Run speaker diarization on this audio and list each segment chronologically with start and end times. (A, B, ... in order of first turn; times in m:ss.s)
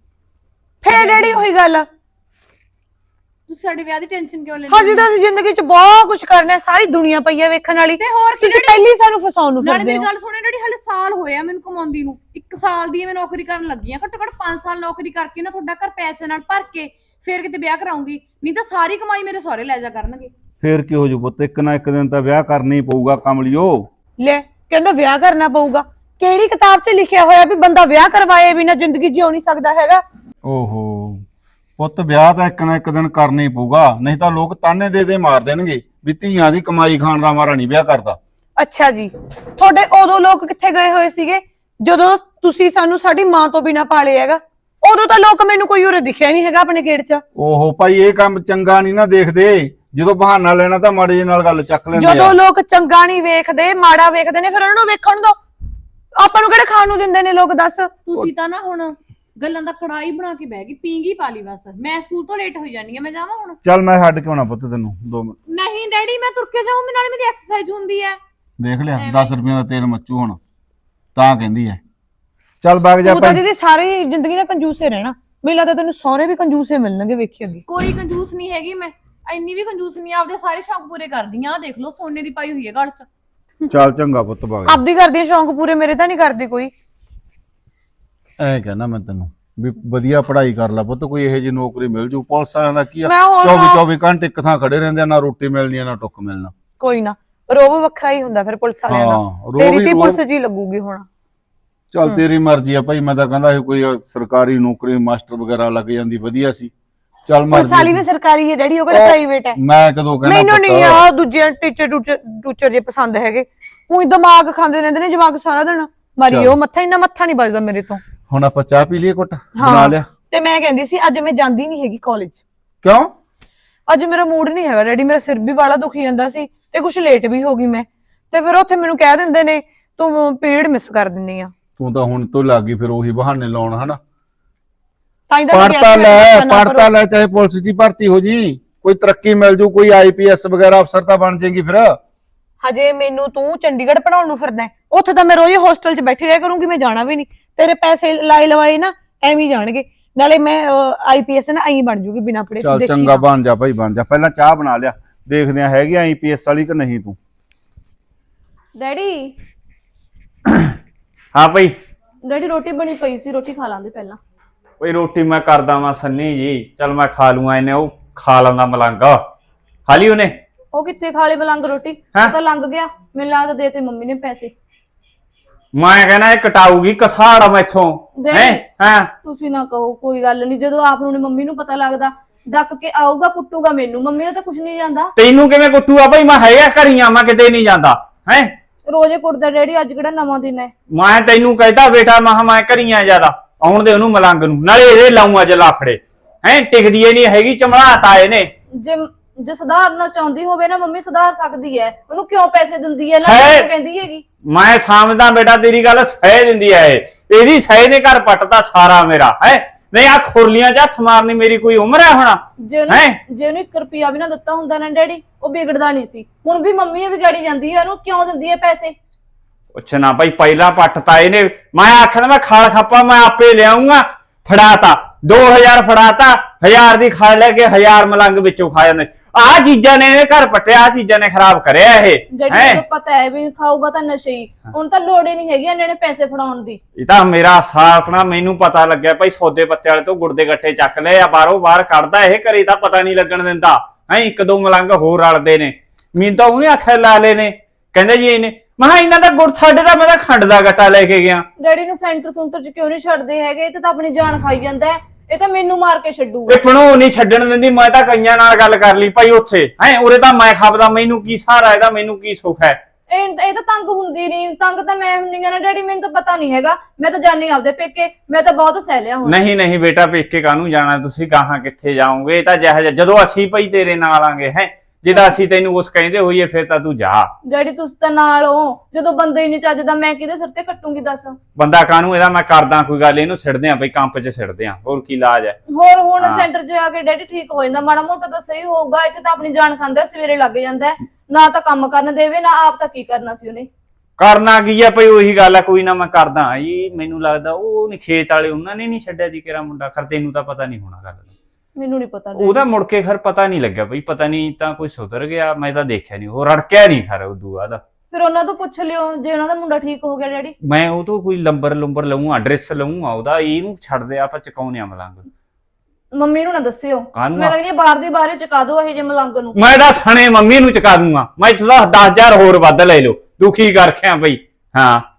0:00.8-0:01.9 A
0:00.9-0:01.4 B
0:03.5-0:05.1 B
0:04.7-0:10.1 A
0:08.0-0:08.9 B
0:09.6-0:20.3 B
0:20.6-0:23.9 C
0:24.2-0:30.0 A
0:30.4-0:31.2 C
0:31.8-0:38.2 C
0:38.6-0:47.2 A
0:47.3-0:52.4 C
0:51.9-0:55.4 A
0:56.2-0:58.2 A
0:58.1-1:03.6 B
1:03.6-1:05.4 C
1:05.5-1:08.2 B
1:08.6-1:10.4 C
1:09.0-1:09.3 B
1:11.1-1:11.8 C
1:12.6-1:13.4 C
1:13.0-1:17.6 A
1:17.7-1:23.1 B
1:23.7-1:24.8 C
1:24.7-1:26.7 A
1:28.4-1:36.5 C
1:33.0-1:33.8 A
1:36.8-1:41.1 A
1:38.9-1:40.2 C
1:41.9-1:46.7 C
1:47.2-1:48.0 C
1:47.5-1:49.6 A
1:48.9-1:51.0 C
1:50.2-1:58.0 A
1:56.2-1:56.5 C
1:58.3-2:00.1 C
1:59.6-2:02.4 A
2:02.8-2:03.1 C
2:03.9-2:11.5 A
2:11.8-2:14.0 C
2:15.3-2:16.9 A
2:15.5-2:22.0 C
2:22.6-2:33.2 A
2:32.6-2:37.2 C
2:38.8-2:39.3 D
2:40.4-2:40.8 E
2:41.3-2:41.7 E
2:42.2-2:44.2 D
2:44.8-2:49.2 E
2:49.9-2:50.4 E
2:50.7-2:54.5 D
2:55.7-2:59.1 E
2:58.2-2:58.6 D
2:59.2-3:05.1 D
3:05.2-3:08.5 E
3:08.9-3:10.7 D
3:10.9-3:18.5 E
3:18.8-3:24.2 D
3:23.2-3:23.7 E
3:24.4-3:33.2 E
3:32.6-3:38.9 D
3:39.7-3:52.8 E
3:52.3-3:56.8 D
3:57.0-4:11.5 E
4:11.6-4:16.6 D
4:16.5-4:22.8 E
4:23.1-4:29.4 D
4:29.2-4:37.3 E
4:37.4-4:41.4 D
4:41.6-4:45.6 E
4:45.7-4:53.7 D
4:46.2-4:46.5 E
4:54.2-5:01.3 E
5:01.8-5:02.7 D
5:02.4-5:07.8 E
5:08.1-5:10.5 D
5:10.6-5:15.2 E
5:16.1-5:19.6 D
5:17.1-5:17.5 E
5:19.5-5:25.0 E